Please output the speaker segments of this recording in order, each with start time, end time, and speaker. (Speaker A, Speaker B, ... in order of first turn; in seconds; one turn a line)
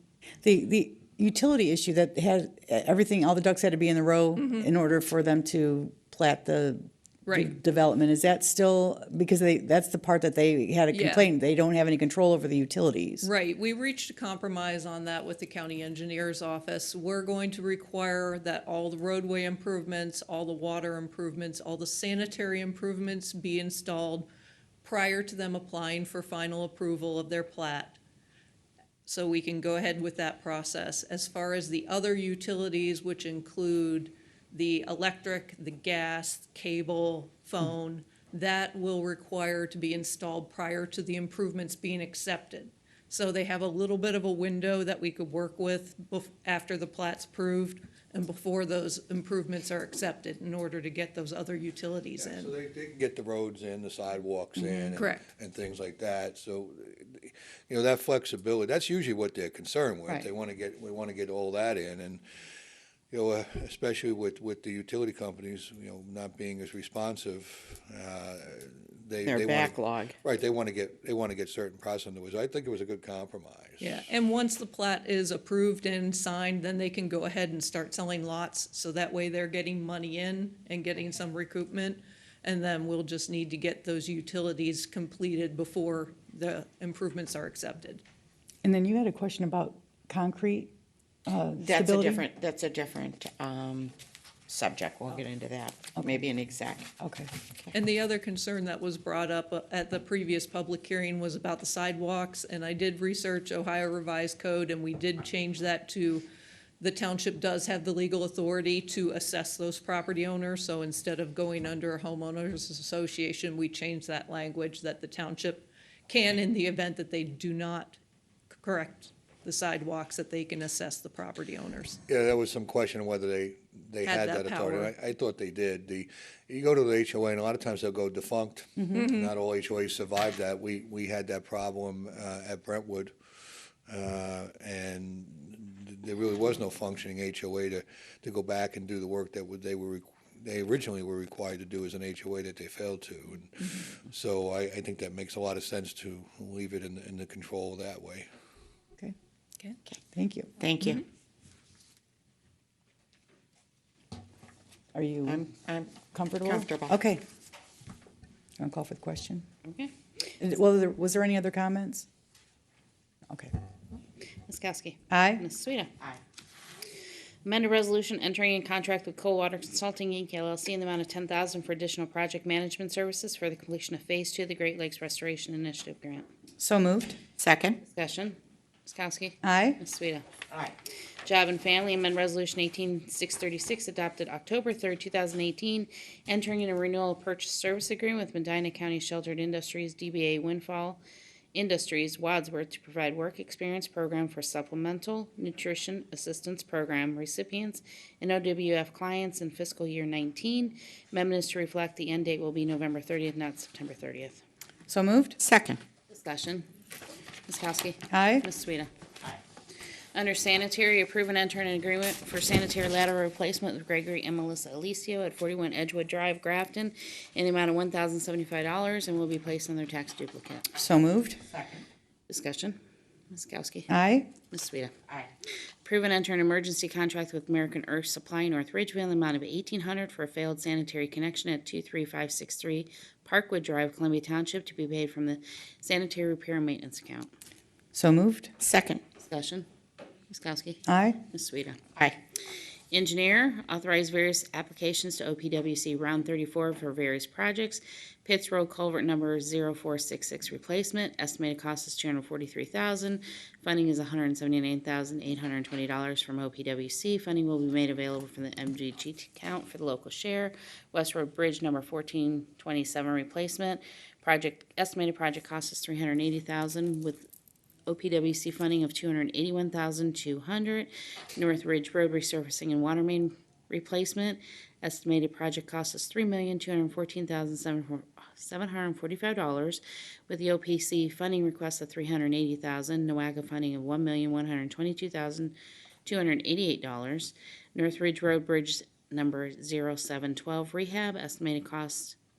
Speaker A: 0.4-13.3
Speaker B: 4.3-4.7
Speaker B: 7.2-7.5
Speaker B: 10.9-11.3
Speaker B: 13.2-24.3
Speaker B: 24.8-28.0
Speaker B: 29.0-52.5
Speaker C: 52.2-62.2
Speaker B: 54.9-55.2
Speaker C: 63.1-74.0
Speaker D: 69.2-70.1
Speaker B: 73.8-88.0
Speaker A: 88.6-90.7
Speaker A: 91.2-92.2
Speaker D: 91.6-93.9
Speaker D: 94.5-96.9
Speaker A: 97.0-97.3
Speaker B: 97.7-106.3
Speaker B: 106.8-118.0
Speaker B: 118.5-122.0
Speaker C: 122.1-133.1
Speaker B: 124.0-124.9
Speaker B: 128.9-129.3
Speaker C: 133.9-148.3
Speaker A: 150.1-150.5
Speaker D: 150.6-151.0
Speaker A: 154.9-155.5
Speaker D: 155.3-157.0
Speaker A: 156.0-157.2
Speaker A: 158.6-159.4
Speaker E: 159.7-159.9
Speaker A: 160.4-162.1
Speaker E: 164.5-166.1
Speaker A: 165.1-165.4
Speaker E: 167.4-176.3
Speaker A: 176.6-177.2
Speaker D: 177.4-177.8
Speaker E: 177.8-180.3
Speaker A: 179.4-179.8
Speaker D: 180.5-180.7
Speaker E: 181.2-191.0
Speaker E: 191.5-204.4
Speaker A: 204.9-205.4
Speaker D: 205.4-205.8
Speaker E: 206.1-206.7
Speaker E: 207.5-208.9
Speaker A: 208.1-208.5
Speaker E: 210.1-220.7
Speaker A: 220.7-221.4
Speaker D: 221.5-221.8
Speaker E: 222.3-222.8
Speaker E: 223.3-223.9
Speaker A: 223.9-224.3
Speaker E: 224.5-225.2
Speaker E: 225.8-237.3
Speaker A: 237.9-238.5
Speaker D: 238.6-239.0
Speaker E: 239.2-239.7
Speaker E: 240.3-241.8
Speaker A: 240.9-241.2
Speaker E: 242.9-267.3
Speaker E: 267.9-292.2